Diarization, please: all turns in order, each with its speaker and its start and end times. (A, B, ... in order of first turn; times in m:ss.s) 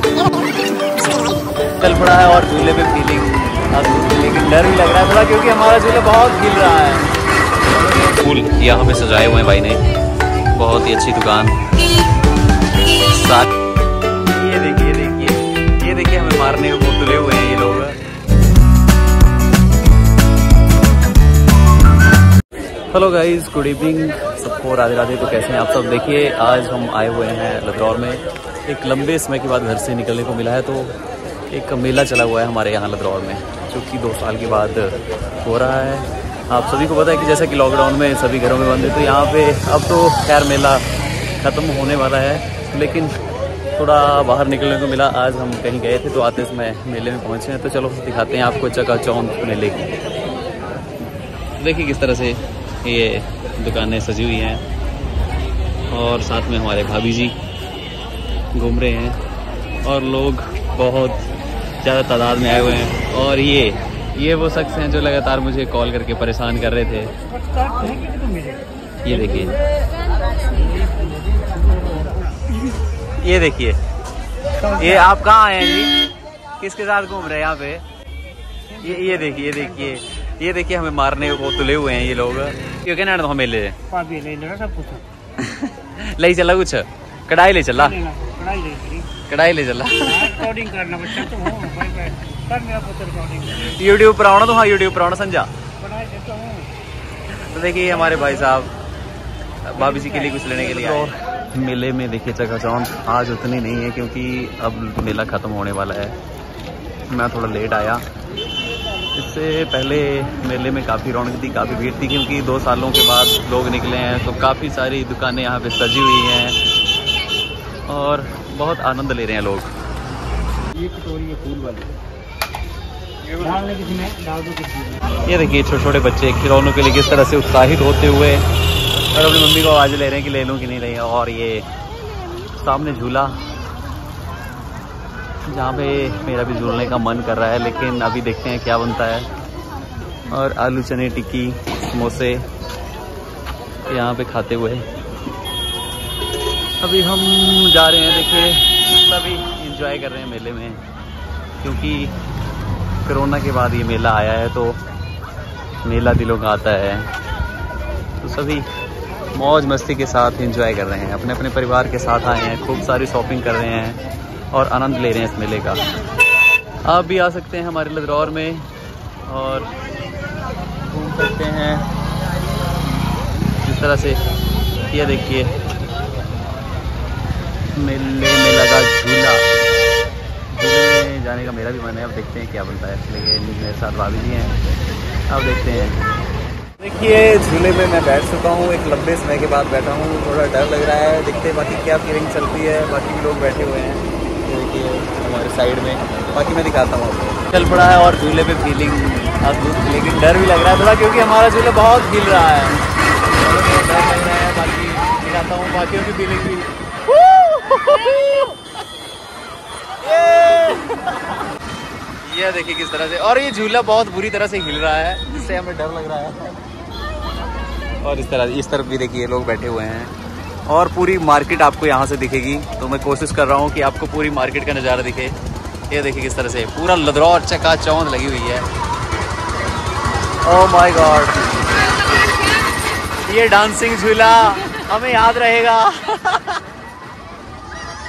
0:01.8-0:07.1 A
0:07.7-0:09.8 A
0:10.5-0:11.6 A
0:13.0-0:13.5 A
0:14.3-0:18.0 A
0:22.9-0:31.0 A
0:31.5-0:40.8 A
0:41.4-0:43.1 A
0:43.8-0:50.0 A
0:51.6-0:54.6 A
0:55.9-0:57.4 A
0:58.5-0:59.2 A
0:59.8-1:01.2 A
1:01.8-1:07.1 A
1:07.6-1:08.6 B
1:09.0-1:09.6 A
1:13.2-1:13.8 A
1:14.7-1:15.9 A
1:16.6-1:17.8 A
1:18.8-1:23.8 A
1:23.9-1:25.0 B
1:25.4-1:28.0 A
1:28.0-1:29.1 B
1:29.2-1:31.8 A
1:30.3-1:33.6 B
1:33.4-1:35.5 A
1:35.8-1:36.7 B
1:37.3-1:38.7 A
1:39.6-1:46.2 A
1:47.1-1:48.0 A
1:49.1-1:56.6 A
1:57.9-1:59.7 A
2:00.8-2:01.9 B
2:03.3-2:04.9 B
2:05.2-2:08.4 A
2:09.1-2:11.7 A
2:12.6-2:13.4 A
2:15.5-2:19.3 A
2:20.3-2:22.4 A
2:23.9-2:24.8 A
2:26.8-2:30.8 A
2:31.6-2:32.2 A
2:33.0-2:34.8 A
2:35.8-2:37.1 A
2:38.2-2:38.7 A
2:39.3-2:44.0 A
2:44.5-2:45.8 A
2:46.8-2:48.7 A
2:49.3-2:49.7 A
2:50.8-2:51.8 A
2:53.6-2:54.2 A
2:54.9-2:55.5 A
2:57.8-2:59.5 A
3:00.5-3:04.6 A
3:05.3-3:06.0 A
3:06.8-3:22.8 A
3:23.3-3:28.5 A
3:30.0-3:31.1 A
3:32.2-3:36.5 A
3:38.0-3:40.1 A
3:40.7-3:45.4 A
3:45.9-3:48.7 A
3:50.4-3:51.4 A
3:53.2-3:56.6 A